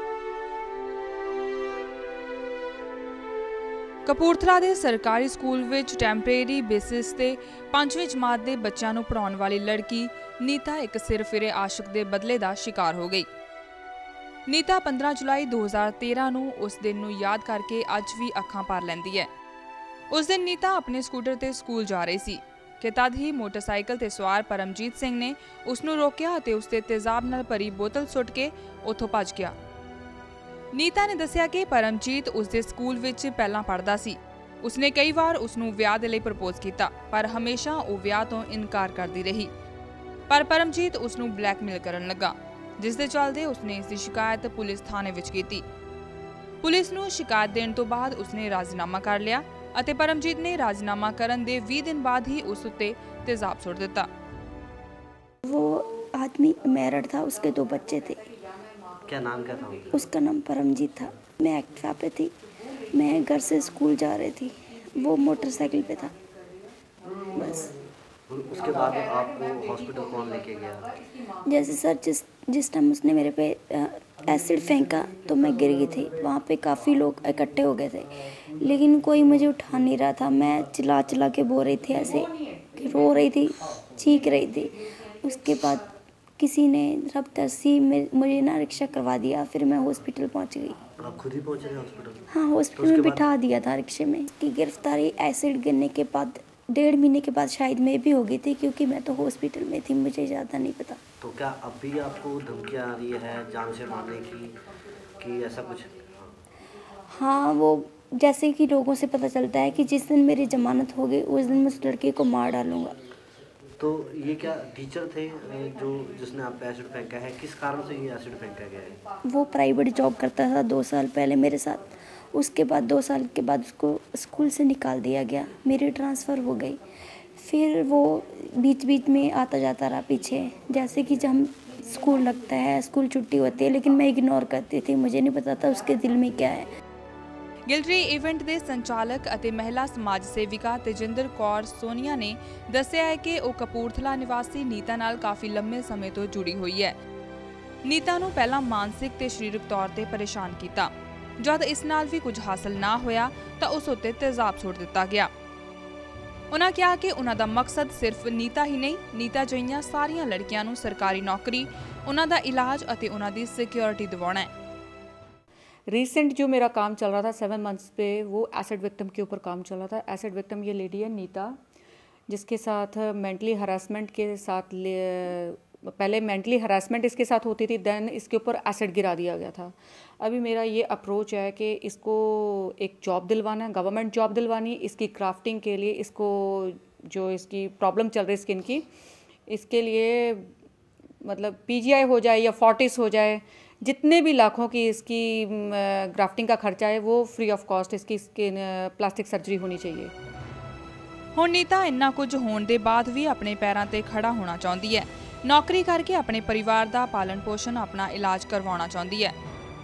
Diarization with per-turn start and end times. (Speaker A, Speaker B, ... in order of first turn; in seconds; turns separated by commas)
Speaker A: 4.0-13.3, Speaker A: 14.5-19.3, Speaker A: 20.1-29.5, Speaker A: 30.7-39.5, Speaker A: 40.3-45.6, Speaker A: 46.6-54.1, Speaker B: 55.4-58.2, Speaker C: 57.4-60.0, Speaker D: 59.0-60.0, Speaker B: 59.9-62.4, Speaker C: 62.7-63.6, Speaker B: 62.9-66.1, Speaker C: 64.6-67.7, Speaker B: 67.3-67.7, Speaker D: 68.3-71.0, Speaker C: 68.5-71.8, Speaker B: 71.4-85.8, Speaker C: 82.0-82.8, Speaker B: 86.4-90.8, Speaker D: 91.0-93.3, Speaker B: 92.3-101.0, Speaker D: 101.2-106.4, Speaker B: 107.1-113.0, Speaker D: 113.8-119.0, Speaker C: 119.0-119.2, Speaker B: 119.2-126.8, Speaker C: 119.9-120.3, Speaker B: 127.4-136.7, Speaker A: 137.7-146.9, Speaker A: 147.8-155.3, Speaker A: 156.5-164.5, Speaker C: 165.9-171.5, Speaker C: 172.3-188.8, Speaker C: 189.5-190.5, Speaker C: 191.2-200.1, Speaker A: 201.3-209.3